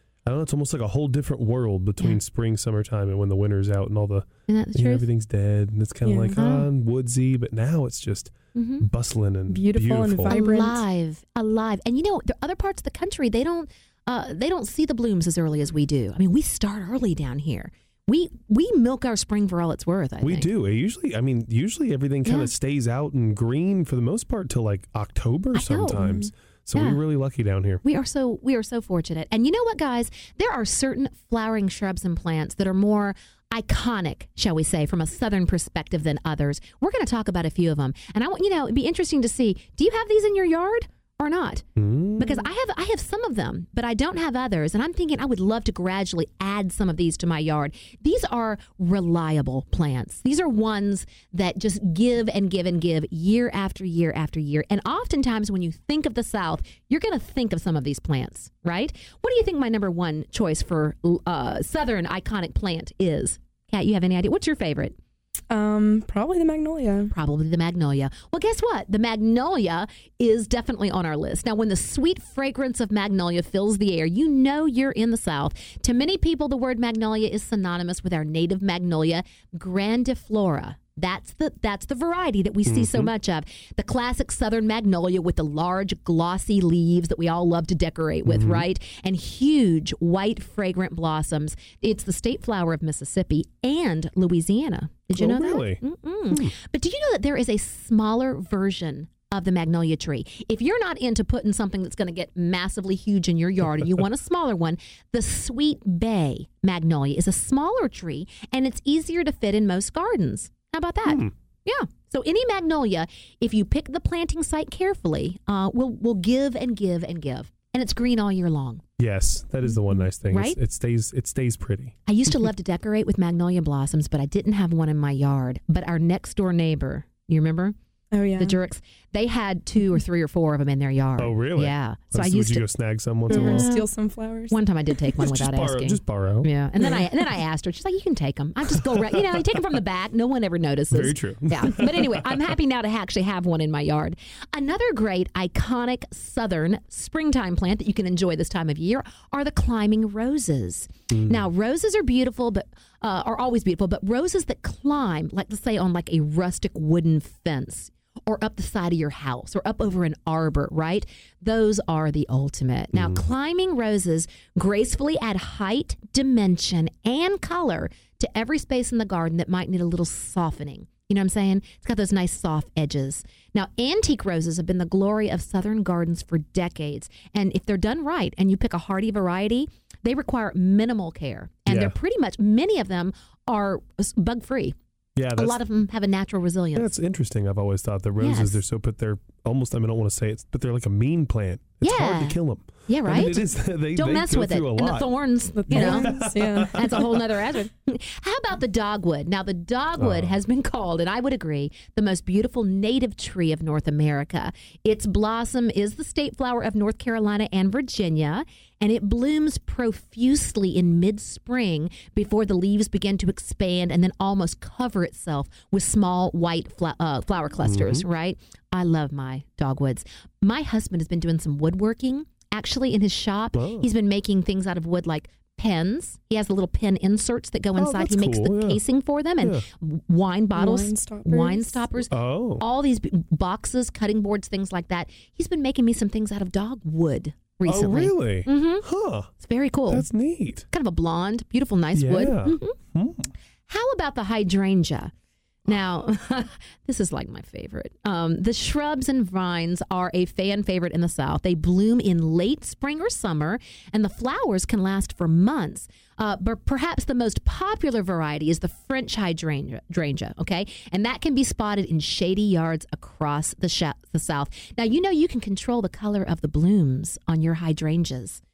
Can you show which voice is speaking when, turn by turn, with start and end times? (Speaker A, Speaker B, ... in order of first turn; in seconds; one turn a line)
Speaker A: 0.3-10.3
Speaker B: 4.5-5.1
Speaker C: 6.0-6.7
Speaker B: 8.6-8.9
Speaker C: 9.5-10.8
Speaker B: 10.3-20.5
Speaker A: 20.2-27.8
Speaker B: 22.2-22.5
Speaker B: 25.5-26.1
Speaker B: 26.7-27.0
Speaker B: 27.8-41.6
Speaker A: 41.8-42.5
Speaker B: 42.2-65.0
Speaker C: 65.5-67.1
Speaker B: 67.1-118.8
Speaker A: 82.7-83.1
Speaker A: 88.2-88.7
Speaker A: 95.1-96.5
Speaker A: 111.0-111.3
Speaker A: 119.0-122.0
Speaker B: 120.3-120.6
Speaker B: 122.1-127.8
Speaker C: 128.1-128.6
Speaker B: 128.4-132.7
Speaker A: 131.2-133.7
Speaker B: 133.3-133.9
Speaker C: 133.3-134.6
Speaker B: 134.5-184.8
Speaker A: 135.1-137.1
Speaker A: 138.7-139.5
Speaker A: 140.9-142.3
Speaker A: 151.1-151.5
Speaker A: 162.9-163.2
Speaker A: 181.7-181.9
Speaker A: 185.2-185.6
Speaker B: 185.4-186.9
Speaker A: 186.7-197.3
Speaker B: 188.2-188.6
Speaker B: 191.8-238.9
Speaker C: 195.6-196.9
Speaker A: 200.0-200.4
Speaker A: 217.6-218.1
Speaker A: 223.5-223.9
Speaker A: 227.8-228.8
Speaker C: 230.5-231.9
Speaker A: 232.1-232.6
Speaker A: 237.6-239.3
Speaker B: 239.4-240.1
Speaker A: 239.9-240.7
Speaker B: 240.7-242.8
Speaker A: 241.9-243.3
Speaker B: 243.7-245.1
Speaker B: 245.7-268.4